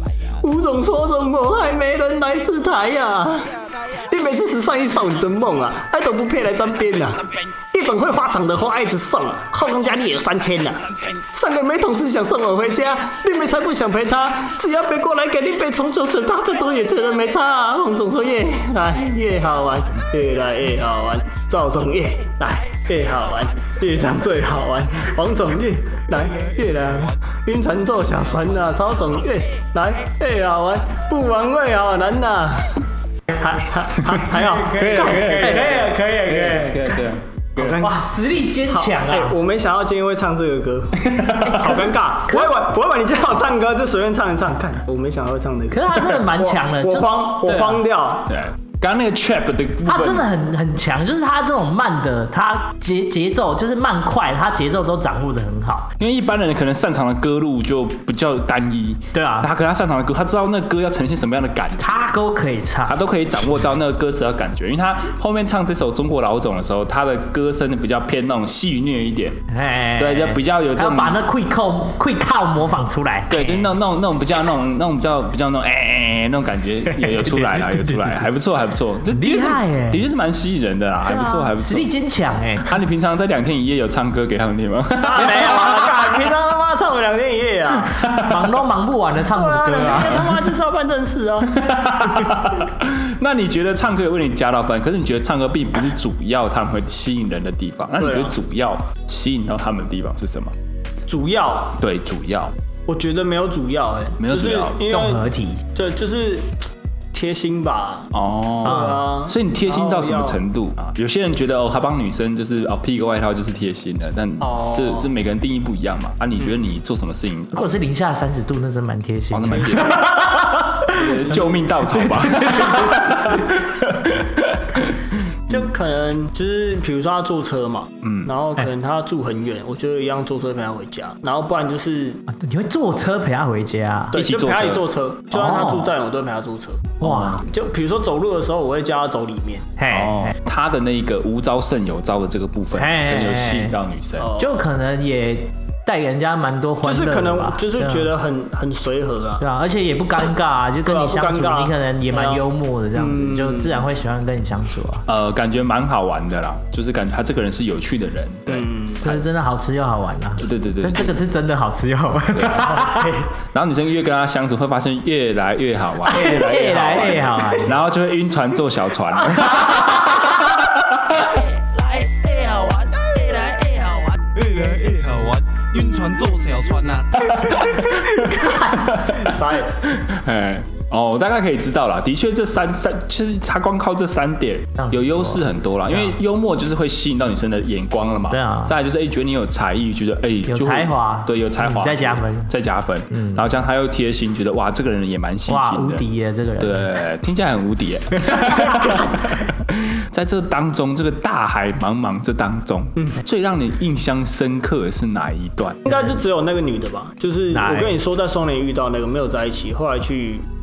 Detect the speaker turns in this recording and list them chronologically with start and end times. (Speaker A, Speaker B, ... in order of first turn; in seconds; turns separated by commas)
Speaker A: 0.4-36.0, Speaker B: 34.4-37.0, Speaker C: 34.7-37.8, Speaker A: 37.6-38.0, Speaker B: 37.8-39.4, Speaker A: 38.7-48.4, Speaker C: 41.0-41.6, Speaker B: 41.4-42.5, Speaker B: 45.7-47.8, Speaker C: 48.3-50.3, Speaker B: 49.9-55.9, Speaker C: 56.0-62.1, Speaker B: 59.1-59.5, Speaker B: 61.8-63.0, Speaker C: 62.9-69.4, Speaker B: 69.5-73.6, Speaker C: 70.0-71.2, Speaker C: 73.3-81.9, Speaker B: 77.0-78.2, Speaker B: 79.1-80.0, Speaker B: 81.0-82.7, Speaker C: 82.6-86.1, Speaker A: 85.0-88.1, Speaker C: 88.0-88.4, Speaker B: 88.2-90.3, Speaker A: 89.3-91.6, Speaker C: 91.5-100.5, Speaker A: 98.0-98.3, Speaker A: 101.1-101.8, Speaker C: 101.8-102.5, Speaker A: 102.9-108.1, Speaker C: 104.2-104.8, Speaker B: 104.9-105.6, Speaker C: 108.1-117.8, Speaker A: 108.6-110.4, Speaker B: 108.7-109.0, Speaker A: 114.4-115.1, Speaker B: 117.5-121.4, Speaker C: 119.3-125.6, Speaker B: 121.9-123.3, Speaker A: 125.5-132.2, Speaker C: 128.0-128.3, Speaker B: 132.3-134.2, Speaker A: 134.1-139.7, Speaker C: 134.2-134.9, Speaker B: 135.3-135.9, Speaker C: 137.0-137.4, Speaker B: 137.0-137.4, Speaker B: 139.8-140.3, Speaker C: 139.9-144.3, Speaker B: 142.8-143.8, Speaker A: 144.2-144.6, Speaker B: 144.4-148.1, Speaker A: 146.8-149.4, Speaker B: 149.4-155.1, Speaker A: 150.8-153.9, Speaker C: 155.1-159.2, Speaker A: 158.5-159.2, Speaker B: 158.9-163.2, Speaker C: 160.4-161.2, Speaker C: 162.3-162.8, Speaker A: 162.7-163.3, Speaker C: 163.5-171.4, Speaker B: 166.1-167.7, Speaker D: 171.8-177.1, Speaker C: 177.2-196.0, Speaker A: 179.0-179.9, Speaker B: 184.8-186.2, Speaker B: 188.3-188.7, Speaker B: 190.5-192.5, Speaker B: 193.1-193.4, Speaker B: 195.5-197.0, Speaker C: 196.6-205.8, Speaker B: 198.6-198.9, Speaker A: 205.8-210.5, Speaker B: 207.5-208.0